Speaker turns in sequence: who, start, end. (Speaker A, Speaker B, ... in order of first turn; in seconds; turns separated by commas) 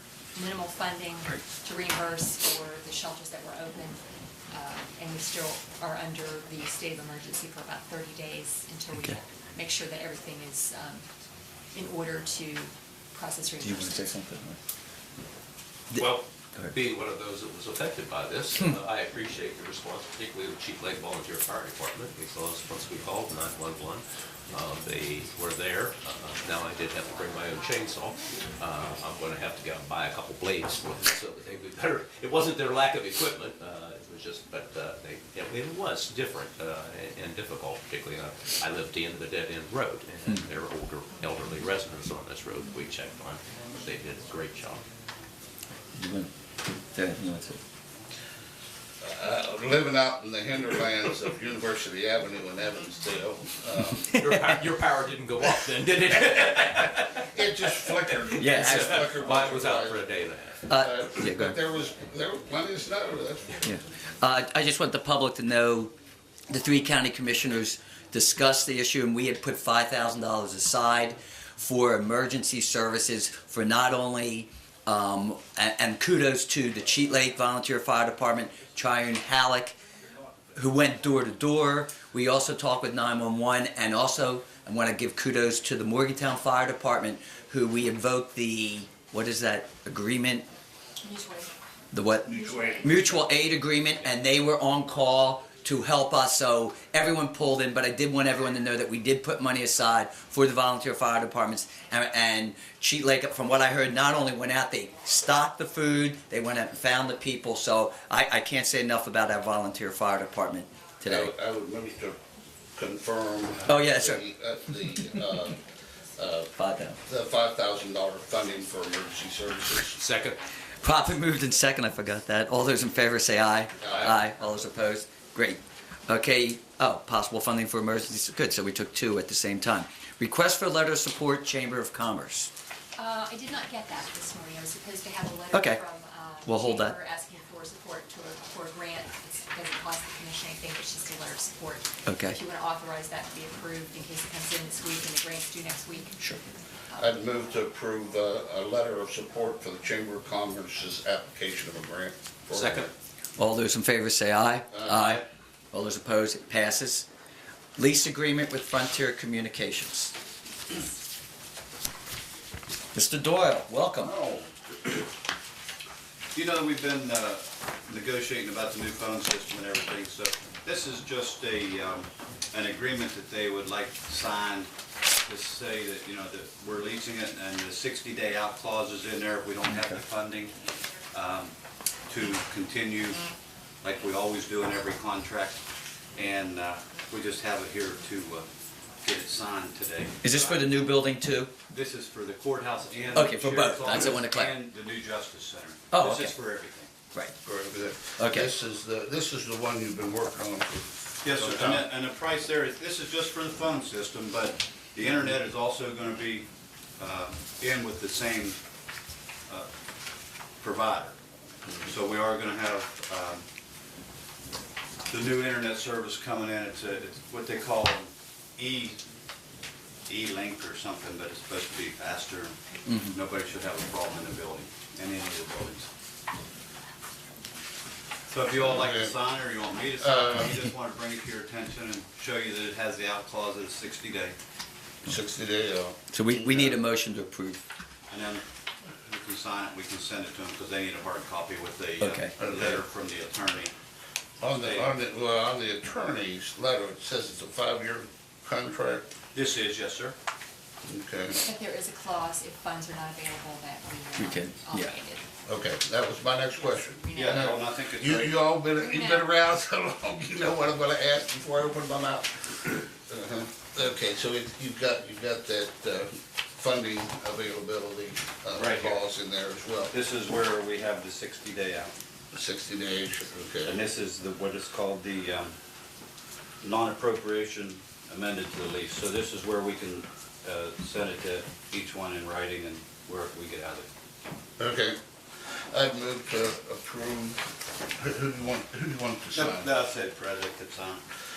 Speaker A: 0.3-4.0, Speaker A: 4.5-11.1, Speaker A: 11.7-14.1, Speaker B: 13.6-14.6, Speaker C: 15.9-44.8, Speaker B: 45.9-46.3, Speaker B: 46.9-47.6, Speaker D: 49.0-54.2, Speaker C: 54.0-60.7, Speaker B: 54.1-54.5, Speaker D: 57.3-60.0, Speaker B: 58.4-59.2, Speaker B: 60.7-61.6, Speaker D: 60.8-63.6, Speaker B: 63.6-65.9, Speaker B: 66.5-79.8, Speaker B: 80.5-90.5, Speaker A: 91.0-91.5, Speaker B: 91.9-111.3, Speaker A: 92.3-93.1, Speaker D: 92.3-92.8, Speaker D: 111.0-112.2, Speaker D: 112.8-115.6, Speaker B: 113.7-114.2, Speaker D: 116.1-116.5, Speaker B: 116.5-117.0, Speaker D: 117.0-120.0, Speaker C: 119.9-120.4, Speaker B: 120.8-132.5, Speaker D: 123.8-124.2, Speaker A: 132.9-147.1, Speaker B: 135.5-135.8, Speaker B: 136.4-136.9, Speaker B: 142.1-142.4, Speaker D: 147.0-152.9, Speaker C: 152.5-152.9, Speaker B: 153.4-157.1, Speaker D: 154.7-155.1, Speaker B: 157.8-160.1, Speaker B: 162.9-164.2, Speaker E: 164.0-164.5, Speaker E: 166.3-174.7, Speaker E: 175.2-180.6, Speaker B: 179.7-180.0, Speaker E: 181.1-181.5, Speaker E: 182.1-183.2, Speaker E: 183.8-185.6, Speaker E: 186.1-188.5, Speaker E: 189.0-190.7, Speaker B: 190.2-191.5, Speaker E: 191.7-196.9, Speaker B: 193.1-194.6, Speaker B: 195.9-196.3, Speaker D: 197.4-201.9, Speaker B: 198.2-198.5, Speaker E: 201.2-208.6, Speaker E: 210.6-211.2, Speaker E: 211.8-213.4, Speaker E: 215.1-219.0, Speaker E: 220.1-222.6, Speaker B: 222.8-223.1, Speaker E: 223.1-225.9, Speaker E: 228.3-234.3, Speaker D: 228.6-229.1, Speaker D: 230.0-230.5, Speaker D: 235.0-236.8, Speaker B: 236.1-237.6, Speaker E: 238.1-238.4, Speaker E: 239.0-243.7, Speaker B: 242.0-242.3, Speaker D: 242.3-242.8, Speaker D: 244.4-249.1, Speaker E: 244.5-245.0, Speaker E: 249.3-250.2, Speaker D: 250.8-251.4, Speaker A: 251.4-255.3, Speaker B: 254.2-254.9, Speaker D: 255.4-269.9, Speaker A: 256.7-257.5, Speaker E: 257.1-258.5, Speaker A: 258.8-259.3, Speaker E: 268.5-269.0, Speaker E: 269.9-271.9, Speaker D: 272.3-273.8, Speaker E: 273.6-275.5, Speaker E: 276.6-283.9, Speaker D: 284.6-285.0, Speaker D: 285.5-287.4, Speaker D: 288.0-289.7, Speaker E: 289.3-291.0